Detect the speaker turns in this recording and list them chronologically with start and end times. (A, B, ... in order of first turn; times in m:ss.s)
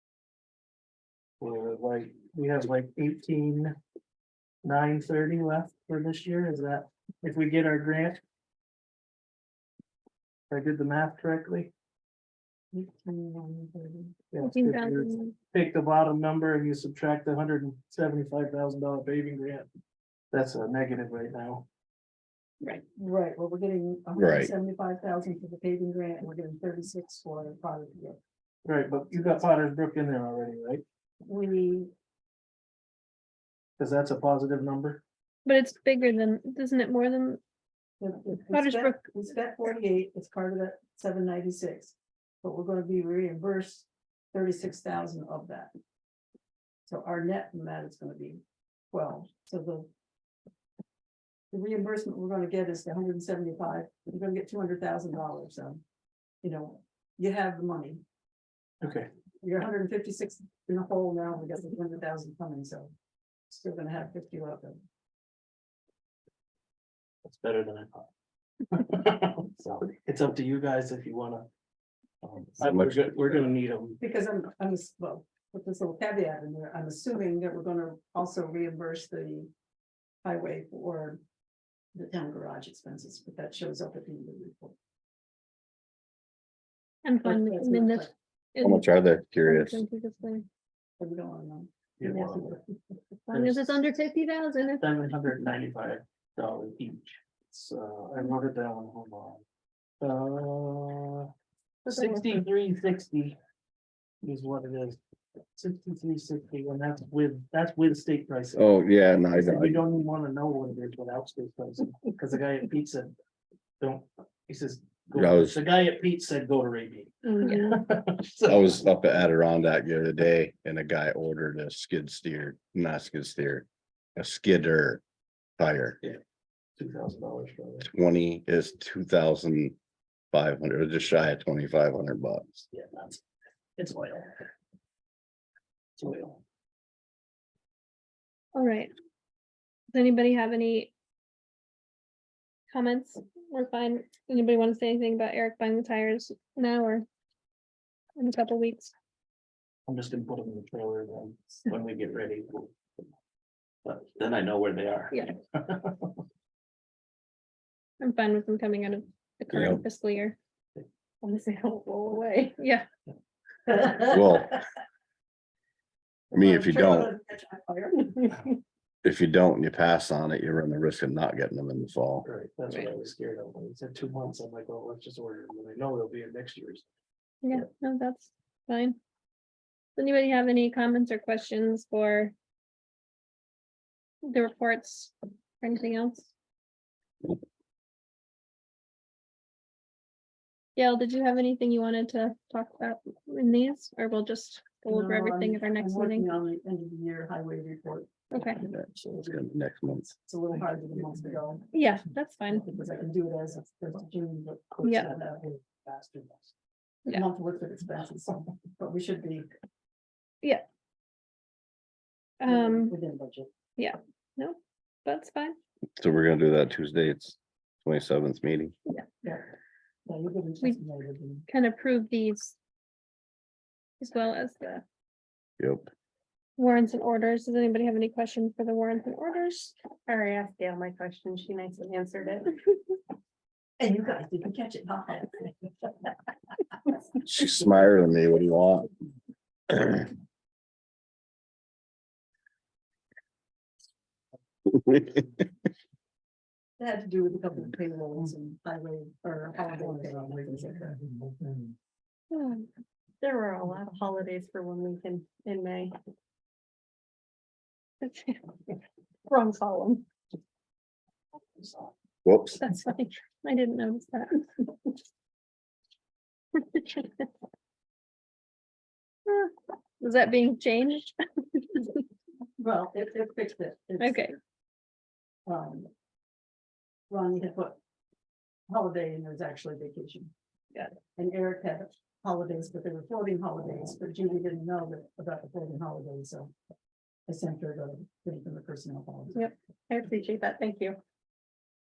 0:01.4-0:03.8 A
0:04.6-0:08.2 A
0:10.5-0:11.7 A
0:12.7-0:14.1 B
0:14.3-0:19.7 A
0:14.4-0:15.3 C
0:20.3-0:21.6 A
0:22.9-0:28.2 B
0:24.2-0:24.5 D
0:28.6-0:30.8 A
0:31.2-0:31.9 B
0:33.8-0:35.0 A
0:35.4-0:37.4 C
0:38.0-0:45.7 B
0:38.5-0:39.0 C
0:46.8-0:49.9 B
0:51.5-0:55.8 B
0:56.4-0:58.0 B
0:58.8-0:59.1 A
0:59.4-1:02.9 B
1:03.5-1:04.8 B
1:07.2-1:08.1 A
1:08.7-1:11.5 A
1:12.2-1:14.0 A
1:12.6-1:13.5 D
1:14.0-1:19.5 B
1:20.2-1:21.2 B
1:21.9-1:24.7 B
1:27.0-1:30.4 C
1:27.2-1:28.1 B
1:28.6-1:29.8 D
1:31.0-1:32.6 B
1:32.0-1:32.6 A
1:33.3-1:34.8 C
1:33.3-1:33.8 A
1:34.8-1:39.4 A
1:40.0-1:41.3 A
1:41.8-1:43.4 A
1:44.2-1:45.0 A
1:45.6-1:48.7 A
1:48.6-1:49.8 D
1:49.3-1:53.1 A
1:53.8-1:58.8 A
1:55.1-1:55.6 D
1:57.4-1:57.8 C
1:58.4-2:03.6 D
2:04.2-2:05.0 D
2:05.6-2:06.0 D
2:06.8-2:07.9 A
2:07.8-2:09.8 D
2:10.3-2:12.6 D
2:12.7-2:13.2 A
2:13.8-2:14.4 A
2:16.0-2:16.4 A
2:18.5-2:18.9 C
2:19.9-2:20.9 C
2:22.7-2:27.0 C
2:28.2-2:28.9 C
2:29.8-2:32.8 A
2:33.8-2:36.1 A
2:38.0-2:40.4 C
2:39.5-2:39.8 D
2:41.2-2:42.4 E
2:42.5-2:42.8 C
2:43.7-2:44.0 B
2:44.0-2:44.6 D
2:46.3-2:47.1 D
2:46.3-2:48.4 B
2:49.0-2:52.2 D
2:52.2-2:56.8 A
2:57.4-2:59.0 C
3:00.0-3:02.3 C
3:04.2-3:06.3 C
3:10.8-3:16.3 C
3:14.9-3:19.3 B
3:18.3-3:18.6 C
3:18.6-3:20.1 D
3:20.2-3:21.6 B
3:21.7-3:22.7 C
3:22.5-3:25.5 B
3:24.8-3:26.5 A
3:24.8-3:25.1 C
3:27.1-3:29.5 B
3:32.4-3:33.0 C
3:32.4-3:33.5 B
3:33.8-3:35.6 C
3:36.0-3:38.7 D
3:40.0-3:41.5 B
3:41.5-3:42.6 C
3:44.0-3:44.8 C
3:45.6-3:45.9 D
3:46.6-3:49.7 C
3:50.1-3:52.5 E
3:53.8-3:55.9 B
3:57.2-3:58.9 D
3:59.7-4:00.0 D
4:04.7-4:05.2 D
4:06.8-4:11.0 B
4:12.3-4:12.6 E
4:13.2-4:16.0 E
4:18.0-4:18.4 C
4:19.3-4:20.0 E
4:22.2-4:22.6 D
4:22.6-4:24.6 C
4:26.6-4:27.2 C
4:29.2-4:32.0 C
4:32.6-4:34.2 B
4:34.0-4:34.3 C
4:35.5-4:35.9 B
4:37.1-4:37.8 B
4:38.7-4:40.3 B
4:41.2-4:46.5 B
4:47.3-4:49.4 B
4:49.4-4:51.0 E